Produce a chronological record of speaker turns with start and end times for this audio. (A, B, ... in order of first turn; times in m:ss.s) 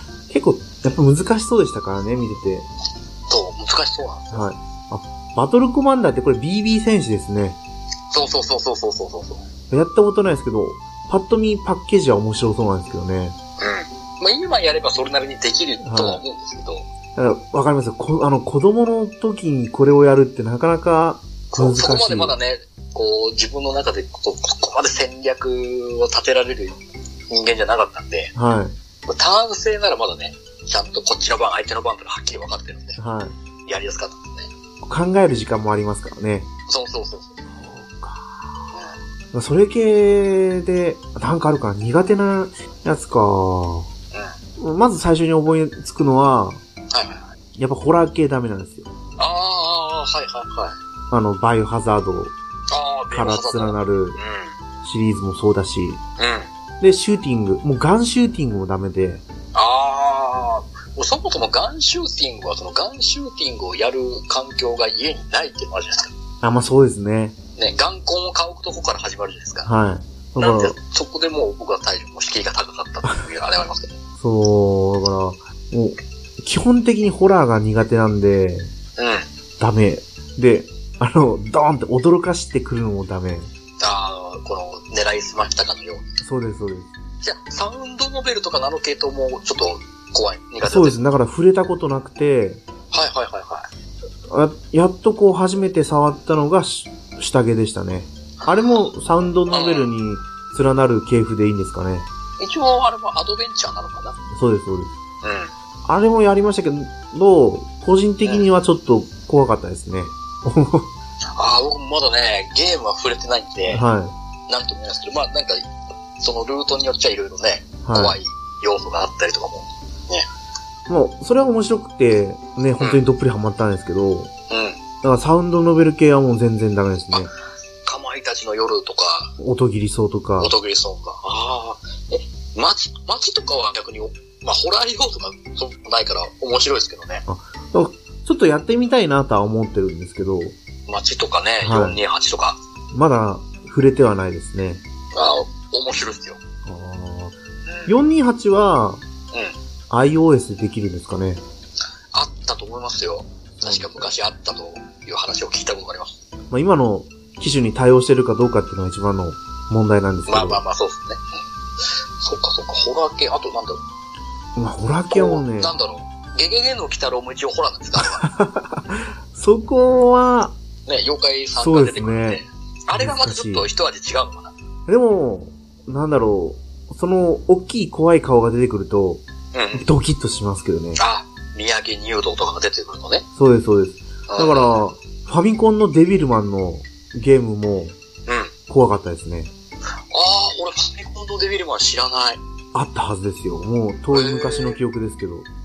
0:00.3-0:02.7 A
0:03.3-0:04.5 B
0:04.3-0:07.6 A
0:08.1-0:09.4 B
0:09.7-0:13.4 A
0:13.6-0:16.9 B
0:15.8-0:16.2 A
0:17.2-0:22.4 A
0:21.5-0:26.8 B
0:27.3-0:28.3 B
0:28.4-0:28.7 A
0:29.1-0:33.0 B
0:33.0-0:33.4 A
0:33.7-0:34.5 B
0:34.8-0:36.5 A
0:36.7-0:37.4 B
0:37.5-0:38.7 A
0:38.7-0:39.0 B
0:39.3-0:43.9 A
0:44.1-0:44.4 B
0:44.6-0:46.6 A
0:46.9-0:47.3 B
0:47.6-0:48.9 A
0:49.2-0:50.8 B
0:51.1-0:52.3 A
0:52.7-0:54.6 B
0:53.1-0:54.2 A
0:54.8-0:56.0 A
0:56.2-0:56.5 B
0:56.8-0:59.2 A
0:59.5-1:06.1 B
1:06.4-1:07.4 A
1:07.6-1:09.7 B
1:09.7-1:10.8 A
1:10.4-1:14.0 B
1:14.2-1:18.7 A
1:19.0-1:19.3 B
1:19.6-1:23.5 A
1:23.8-1:26.1 B
1:26.2-1:26.9 A
1:27.2-1:31.0 B
1:30.6-1:32.6 A
1:32.9-1:33.7 B
1:34.3-1:42.1 A
1:38.4-1:38.9 B
1:39.5-1:39.9 B
1:42.4-1:44.2 B
1:44.3-1:44.9 A
1:45.2-1:45.5 B
1:45.9-1:50.9 A
1:51.4-1:53.8 B
1:53.7-1:54.1 A
1:54.5-2:00.3 B
1:57.8-1:58.2 A
2:00.9-2:04.3 A
2:04.5-2:04.8 B
2:05.0-2:07.3 A
2:07.8-2:09.4 B
2:09.4-2:10.5 A
2:10.4-2:17.2 B
2:17.3-2:20.6 A
2:20.9-2:22.6 B
2:21.6-2:22.0 A
2:22.9-2:24.8 A
2:25.1-2:26.4 B
2:26.7-2:27.4 A
2:27.7-2:28.0 B
2:27.9-2:29.0 A
2:29.3-2:29.6 B
2:29.9-2:31.4 A
2:32.1-2:36.2 B
2:33.6-2:34.1 A
2:36.5-2:40.6 A
2:40.3-2:41.4 B
2:42.2-2:43.8 B
2:44.6-2:45.7 A
2:45.1-2:48.2 B
2:48.0-2:50.6 A
2:50.9-2:54.5 B
2:51.6-2:52.4 A
2:53.0-2:53.7 A
2:54.9-2:59.2 A
2:59.5-2:59.9 B
2:59.7-3:01.0 A
3:01.0-3:03.2 B
3:03.4-3:08.0 A
3:04.3-3:04.8 B
3:08.3-3:08.5 B
3:08.7-3:09.5 A
3:10.1-3:12.4 B
3:12.7-3:15.5 A
3:14.1-3:14.8 B